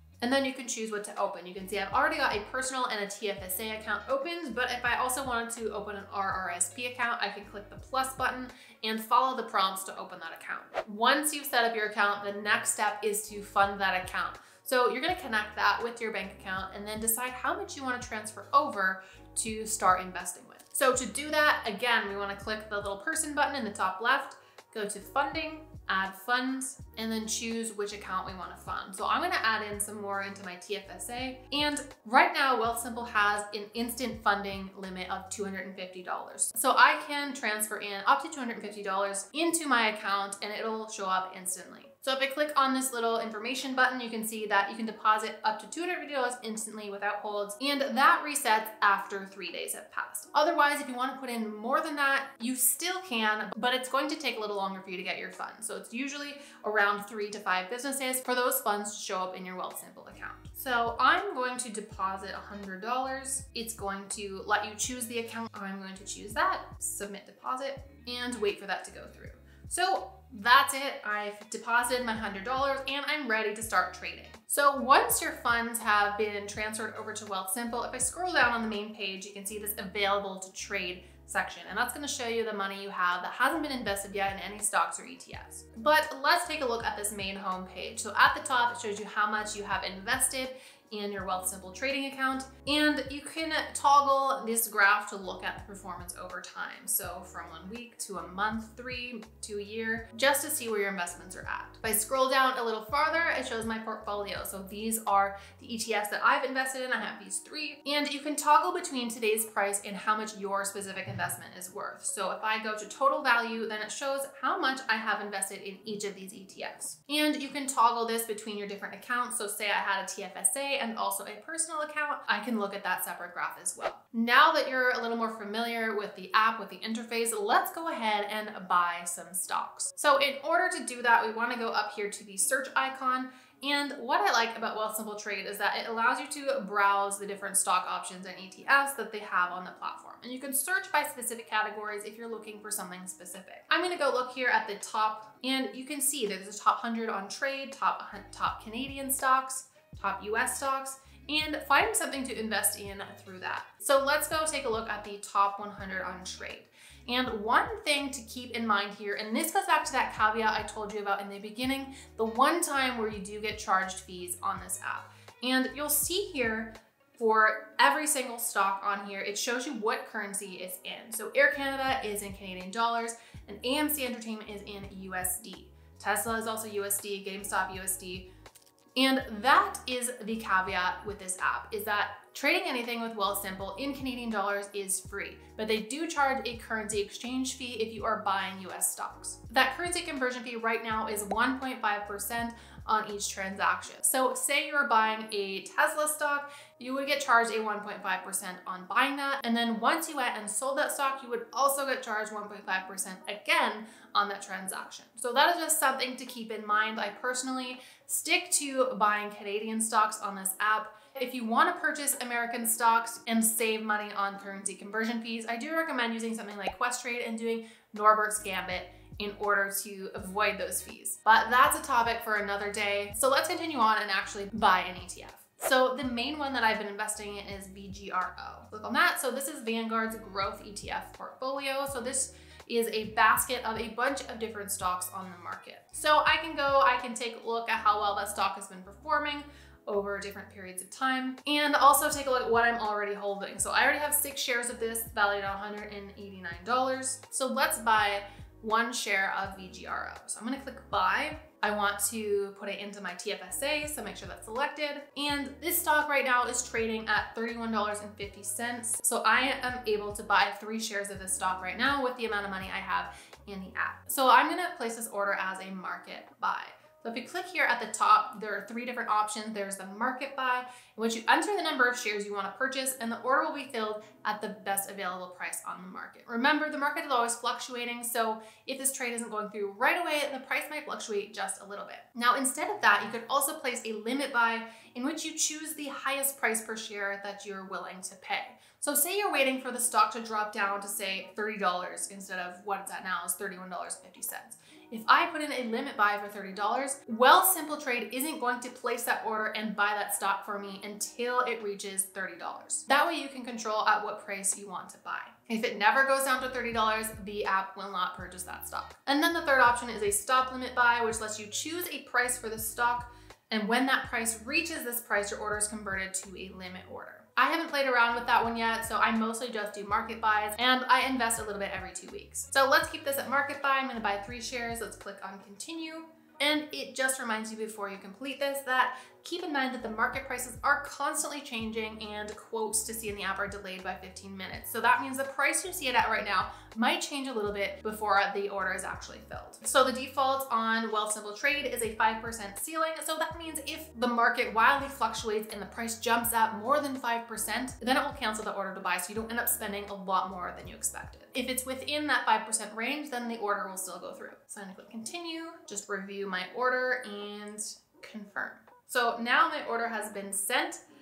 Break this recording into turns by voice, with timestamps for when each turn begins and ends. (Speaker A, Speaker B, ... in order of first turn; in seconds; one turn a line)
Speaker A: 0.2-178.3
Speaker A: 179.0-360.8